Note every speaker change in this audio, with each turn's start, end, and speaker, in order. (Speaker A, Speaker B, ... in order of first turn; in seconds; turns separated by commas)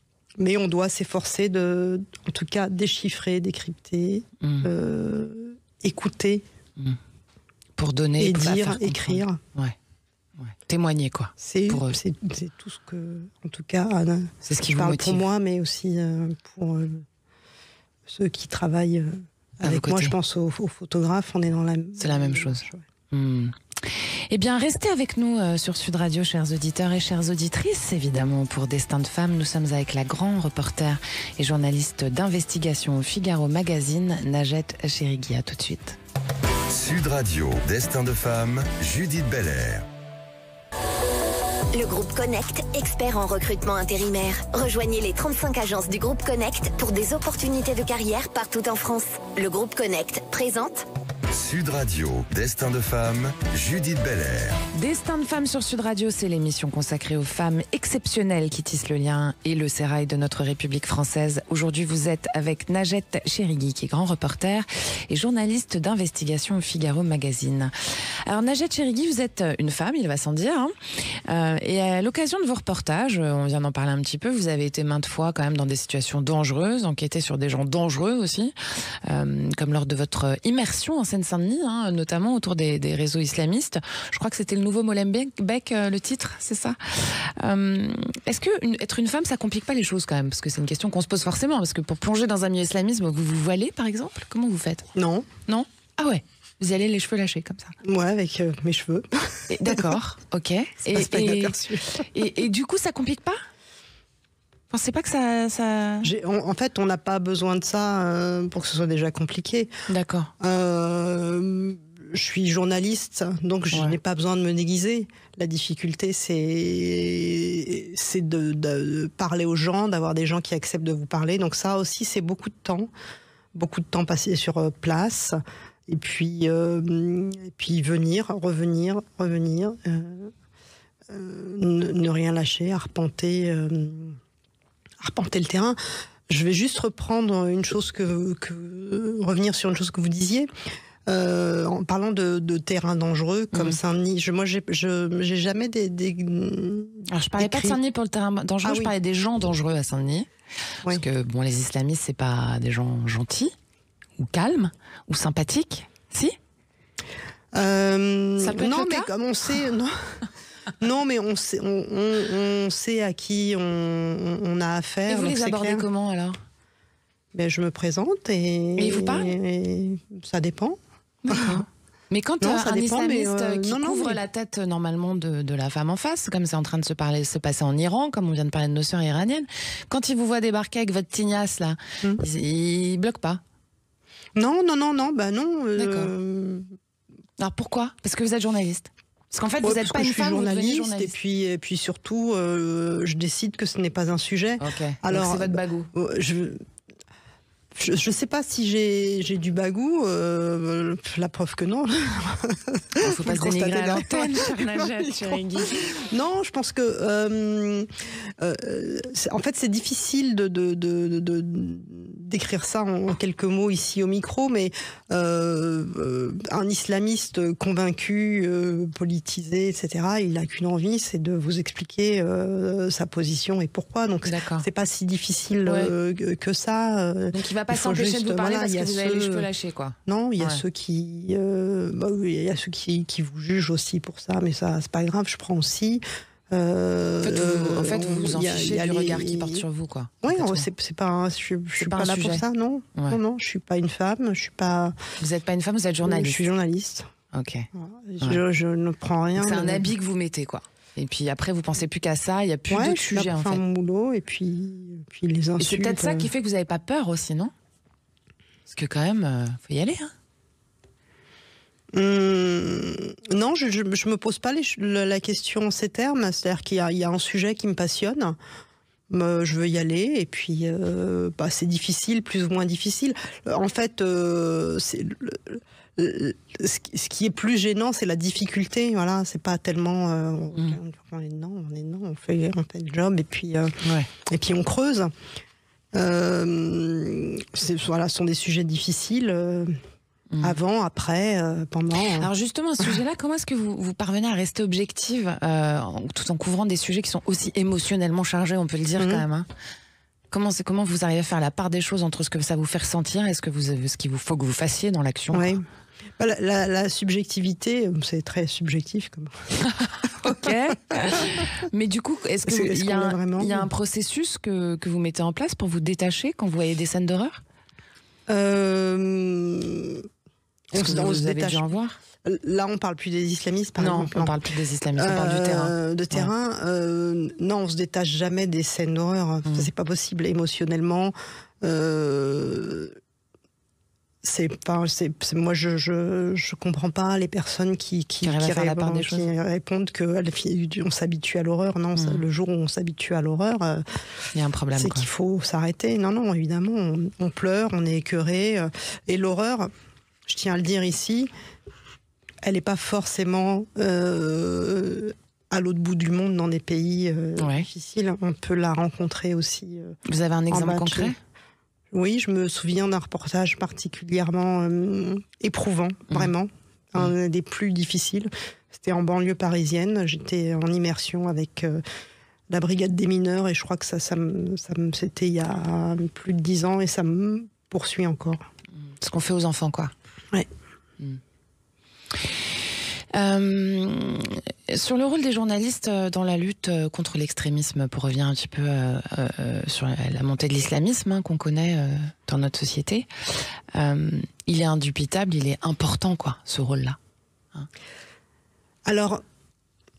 Speaker A: 0.4-6.5, Speaker B: 4.4-4.7, Speaker B: 7.8-9.8, Speaker A: 8.2-9.4, Speaker B: 10.4-12.0, Speaker A: 11.4-17.1, Speaker B: 14.4-15.2, Speaker A: 18.1-22.9, Speaker B: 19.6-20.1, Speaker B: 22.0-36.0, Speaker C: 36.7-39.9, Speaker D: 41.7-50.9, Speaker C: 51.3-54.6, Speaker B: 54.7-94.9, Speaker A: 95.0-95.3, Speaker B: 95.5-97.8, Speaker A: 97.8-99.9, Speaker B: 99.5-103.4, Speaker A: 100.9-102.1, Speaker B: 104.7-106.1, Speaker A: 106.0-109.7, Speaker B: 109.9-110.3, Speaker A: 110.4-122.9, Speaker A: 123.5-125.4, Speaker A: 125.9-130.3, Speaker A: 131.1-134.2, Speaker A: 135.0-135.8, Speaker A: 136.3-140.5, Speaker A: 141.1-147.8, Speaker B: 143.5-143.8, Speaker B: 147.1-150.3, Speaker A: 148.6-148.9, Speaker B: 150.8-153.5, Speaker B: 154.2-156.4, Speaker A: 157.5-160.2, Speaker B: 158.4-159.1, Speaker A: 160.8-165.8, Speaker B: 165.1-166.4, Speaker A: 167.3-171.6, Speaker B: 168.8-169.3, Speaker B: 171.2-183.4, Speaker A: 172.4-174.2, Speaker A: 184.3-186.8, Speaker B: 185.8-186.1, Speaker B: 187.4-191.1, Speaker A: 189.6-196.6, Speaker B: 194.6-195.9, Speaker A: 197.7-229.5, Speaker B: 203.0-206.0, Speaker B: 224.2-224.7, Speaker B: 225.7-225.9, Speaker B: 227.3-230.6, Speaker A: 230.1-239.7, Speaker B: 237.2-240.7, Speaker A: 240.2-245.0, Speaker B: 241.8-242.4, Speaker B: 245.2-246.5, Speaker A: 246.1-247.1, Speaker B: 247.3-247.7, Speaker A: 247.7-249.9, Speaker B: 249.4-253.6, Speaker A: 252.7-256.3, Speaker B: 255.6-257.5, Speaker B: 258.7-260.1, Speaker A: 261.9-268.4, Speaker A: 269.1-285.1, Speaker B: 283.8-284.1, Speaker A: 285.9-289.8, Speaker A: 290.4-292.3, Speaker B: 292.2-299.5, Speaker A: 299.0-299.2, Speaker B: 300.3-305.6, Speaker A: 305.3-305.6, Speaker A: 306.2-309.4, Speaker B: 309.8-317.4, Speaker A: 312.4-313.7, Speaker A: 318.3-320.1, Speaker A: 320.7-321.6, Speaker B: 320.8-322.0, Speaker A: 322.2-324.4, Speaker B: 323.8-326.3, Speaker A: 325.0-333.0, Speaker A: 334.2-344.2, Speaker B: 338.2-339.3, Speaker B: 342.0-342.2, Speaker B: 344.3-345.1, Speaker A: 344.8-349.7, Speaker A: 350.3-351.3, Speaker A: 352.4-360.0, Speaker B: 357.4-357.7, Speaker B: 360.1-361.2, Speaker A: 360.5-361.1, Speaker A: 361.9-371.8, Speaker A: 372.5-378.4, Speaker B: 379.0-379.9, Speaker B: 383.1-393.1, Speaker B: 393.7-397.0, Speaker A: 398.9-399.2